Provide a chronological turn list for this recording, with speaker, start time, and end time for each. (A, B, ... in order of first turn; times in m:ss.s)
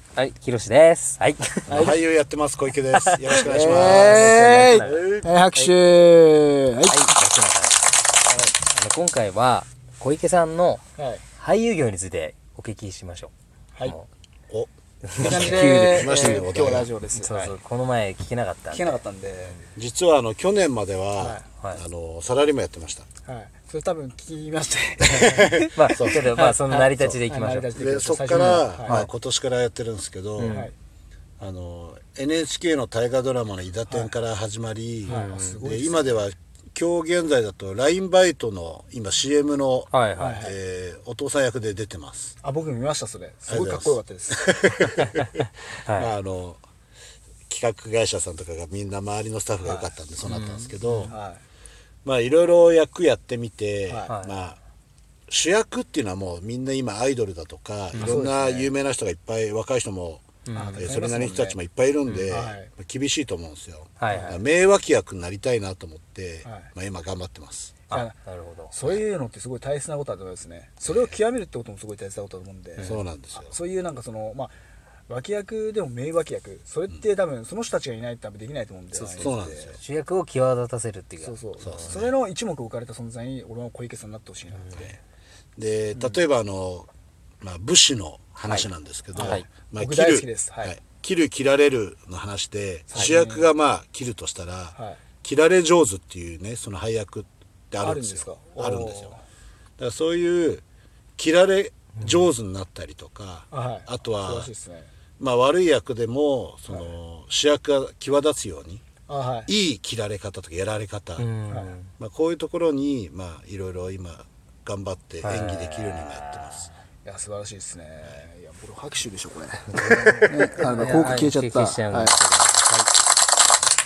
0:00.2-0:01.9 A
0:01.7-0:02.0 B
0:01.7-0:05.4 C
0:02.9-0:05.1 A
0:03.4-0:07.1 B
0:06.9-0:07.8 A
0:08.3-0:08.5 B
0:08.6-0:10.8 A
0:11.0-0:11.2 B
0:11.4-0:13.3 A
0:14.5-0:16.9 C
0:15.1-0:16.5 A
0:15.2-0:17.5 B
0:17.2-0:19.0 A
0:18.7-0:19.6 B
0:19.8-0:23.1 C
0:21.2-0:21.4 B
0:23.2-0:29.0 B
0:25.1-0:26.3 C
0:25.5-0:27.7 A
0:27.8-0:30.6 C
0:28.4-0:29.1 A
0:30.4-0:30.7 A
0:30.5-0:30.7 B
0:31.4-0:42.3 C
0:35.1-0:35.6 A
0:35.1-0:36.2 B
0:39.9-0:40.4 A
0:40.2-0:40.5 B
0:42.4-0:44.5 B
0:43.5-0:46.6 C
0:45.8-0:46.1 A
0:47.5-0:51.1 C
0:49.6-0:49.9 B
0:50.2-0:51.1 A
0:51.1-0:51.4 B
0:52.0-0:54.6 C
0:53.9-0:54.1 B
0:54.1-0:54.3 A
0:55.3-1:07.8 C
0:57.9-0:58.7 A
0:58.0-0:58.4 B
1:00.4-1:00.9 A
1:00.5-1:01.6 B
1:02.1-1:02.3 A
1:02.3-1:02.7 B
1:04.0-1:04.4 A
1:04.1-1:04.4 B
1:06.4-1:06.7 B
1:07.9-1:08.7 A
1:07.9-1:08.2 B
1:08.7-1:14.5 B
1:10.9-1:11.1 C
1:12.8-1:13.0 A
1:12.8-1:13.5 C
1:15.1-1:19.8 B
1:18.9-1:21.4 A
1:19.2-1:19.8 C
1:21.2-1:24.9 B
1:21.6-1:22.1 C
1:25.6-1:26.9 C
1:27.4-1:39.1 C
1:28.5-1:29.5 A
1:29.1-1:30.8 B
1:32.9-1:33.5 B
1:34.8-1:35.0 B
1:37.8-1:39.2 B
1:39.8-1:40.6 C
1:41.2-1:44.5 C
1:43.5-1:44.9 B
1:45.2-1:48.8 C
1:49.1-1:49.5 B
1:49.5-1:51.3 C
1:51.2-1:51.9 A
1:51.5-1:51.8 B
1:52.0-1:56.7 C
1:55.2-1:56.7 A
1:57.0-2:02.2 B
1:59.7-2:02.9 A